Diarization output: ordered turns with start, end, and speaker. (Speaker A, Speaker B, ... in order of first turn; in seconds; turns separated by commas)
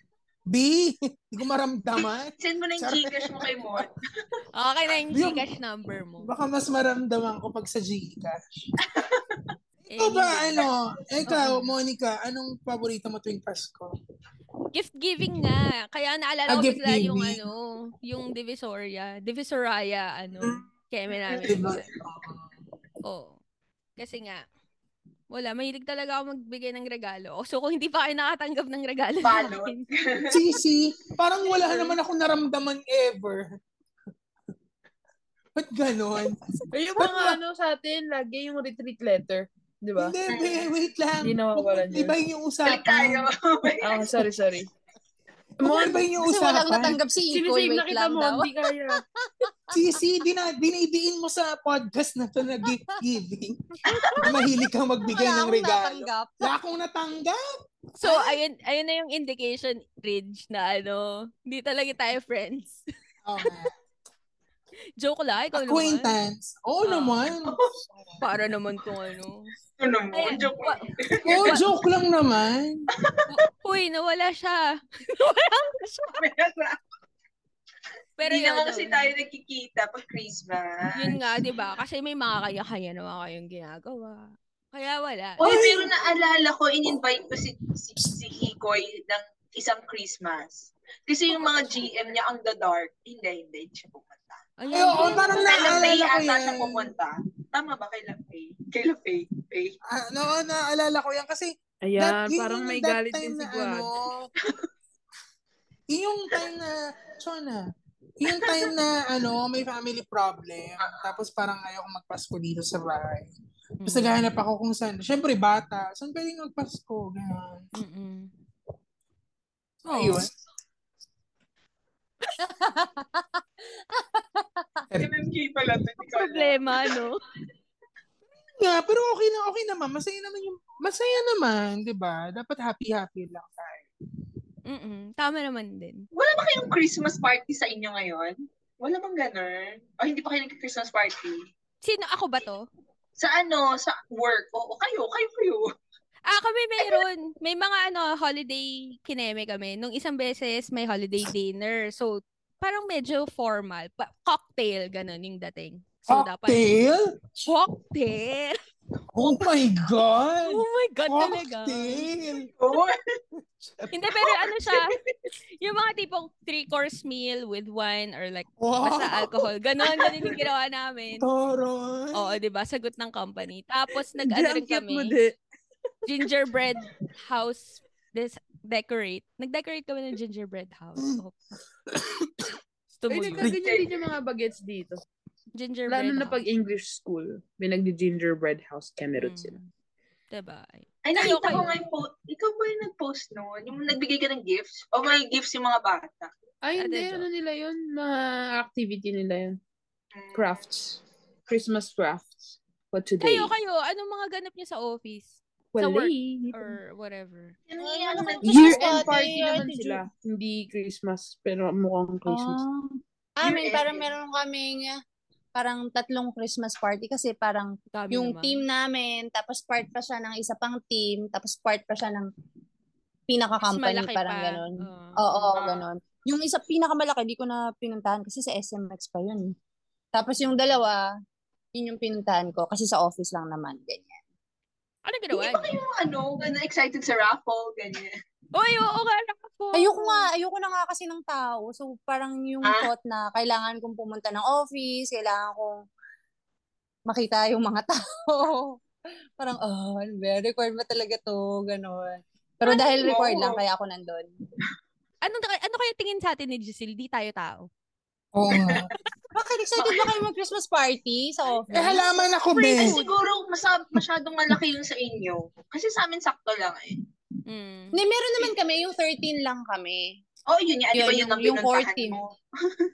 Speaker A: 0.5-3.5, Speaker B: 2.0-4.0, Speaker C: 4.5-6.3, Speaker A: 5.1-5.4, Speaker A: 6.2-8.6, Speaker B: 8.8-9.5, Speaker C: 9.9-10.7, Speaker A: 10.0-13.9, Speaker C: 11.3-11.7, Speaker C: 14.7-21.9, Speaker A: 16.5-17.4, Speaker B: 21.4-21.6, Speaker A: 21.4-22.5, Speaker C: 23.0-23.4, Speaker C: 24.0-24.4, Speaker C: 25.3-29.9, Speaker B: 29.2-30.4, Speaker A: 30.3-33.5, Speaker A: 35.5-37.4, Speaker D: 36.7-40.1, Speaker A: 40.0-43.2, Speaker B: 40.3-40.7, Speaker D: 41.2-42.2, Speaker B: 42.6-44.3, Speaker D: 43.8-44.7, Speaker A: 45.6-47.0, Speaker E: 45.7-48.5, Speaker D: 47.3-49.0, Speaker E: 49.4-49.7, Speaker A: 49.7-53.6, Speaker C: 53.9-54.1, Speaker A: 54.2-57.4, Speaker E: 55.0-56.5, Speaker C: 58.0-62.8, Speaker A: 63.2-63.7, Speaker C: 65.0-66.1, Speaker A: 65.5-68.2, Speaker C: 66.8-67.3, Speaker C: 68.2-69.5, Speaker B: 69.8-71.6, Speaker C: 70.1-71.6, Speaker A: 71.2-72.9, Speaker C: 73.3-74.6, Speaker C: 75.1-76.2, Speaker B: 76.1-76.8, Speaker C: 78.2-79.1, Speaker B: 78.3-81.2, Speaker C: 80.9-85.4, Speaker A: 85.4-85.9, Speaker B: 85.4-99.8, Speaker C: 94.6-95.9, Speaker A: 94.7-96.9, Speaker A: 99.9-104.3, Speaker D: 101.8-103.9, Speaker A: 105.9-107.6, Speaker A: 108.2-113.3, Speaker B: 108.3-108.7, Speaker B: 110.8-111.1, Speaker C: 113.8-114.2, Speaker A: 113.8-117.7, Speaker C: 117.7-118.3, Speaker C: 119.8-120.2, Speaker A: 119.9-120.3, Speaker E: 122.4-123.4, Speaker E: 123.9-124.8, Speaker B: 125.0-127.0, Speaker C: 126.1-127.2, Speaker A: 128.6-133.8, Speaker C: 134.7-136.1, Speaker B: 136.1-141.4, Speaker C: 141.8-142.6, Speaker B: 143.2-145.6, Speaker C: 146.3-156.8, Speaker A: 156.1-157.1, Speaker C: 157.4-158.6, Speaker A: 159.1-162.5, Speaker C: 160.4-162.1, Speaker B: 162.6-163.0, Speaker A: 163.6-163.9, Speaker C: 163.9-164.9, Speaker B: 164.7-165.1, Speaker C: 165.6-171.3, Speaker A: 168.6-169.3, Speaker A: 171.2-172.3, Speaker C: 172.1-175.1, Speaker D: 174.2-175.3, Speaker C: 176.1-181.3, Speaker A: 181.9-182.5, Speaker C: 182.9-183.5, Speaker D: 183.1-185.0, Speaker B: 183.5-184.0, Speaker C: 185.6-186.4, Speaker D: 185.9-189.6, Speaker C: 189.2-189.7, Speaker C: 190.3-191.8, Speaker B: 191.0-196.3, Speaker D: 196.6-199.6, Speaker C: 196.8-197.3, Speaker B: 200.1-200.6, Speaker D: 200.3-203.5, Speaker C: 203.2-207.6, Speaker D: 205.7-206.8, Speaker B: 207.7-209.1, Speaker E: 207.8-210.0, Speaker D: 208.4-212.6, Speaker E: 212.2-215.0, Speaker B: 213.4-214.1, Speaker E: 215.5-222.3, Speaker C: 217.9-218.6, Speaker E: 223.3-229.5, Speaker C: 223.6-225.5, Speaker B: 225.5-225.8, Speaker E: 230.1-231.0, Speaker E: 231.7-234.2, Speaker C: 235.0-235.7, Speaker B: 235.3-238.1, Speaker C: 238.5-240.3, Speaker E: 239.7-245.7, Speaker B: 242.6-242.9, Speaker E: 247.1-248.8, Speaker E: 249.4-254.3, Speaker B: 252.6-253.6, Speaker C: 255.2-257.7, Speaker A: 258.3-258.9, Speaker B: 258.5-258.9, Speaker E: 259.3-262.0, Speaker B: 259.8-260.1, Speaker C: 261.7-263.1, Speaker A: 261.7-263.0, Speaker B: 262.7-267.0, Speaker C: 267.5-268.0, Speaker E: 267.9-270.2, Speaker B: 270.5-272.8, Speaker E: 270.9-272.2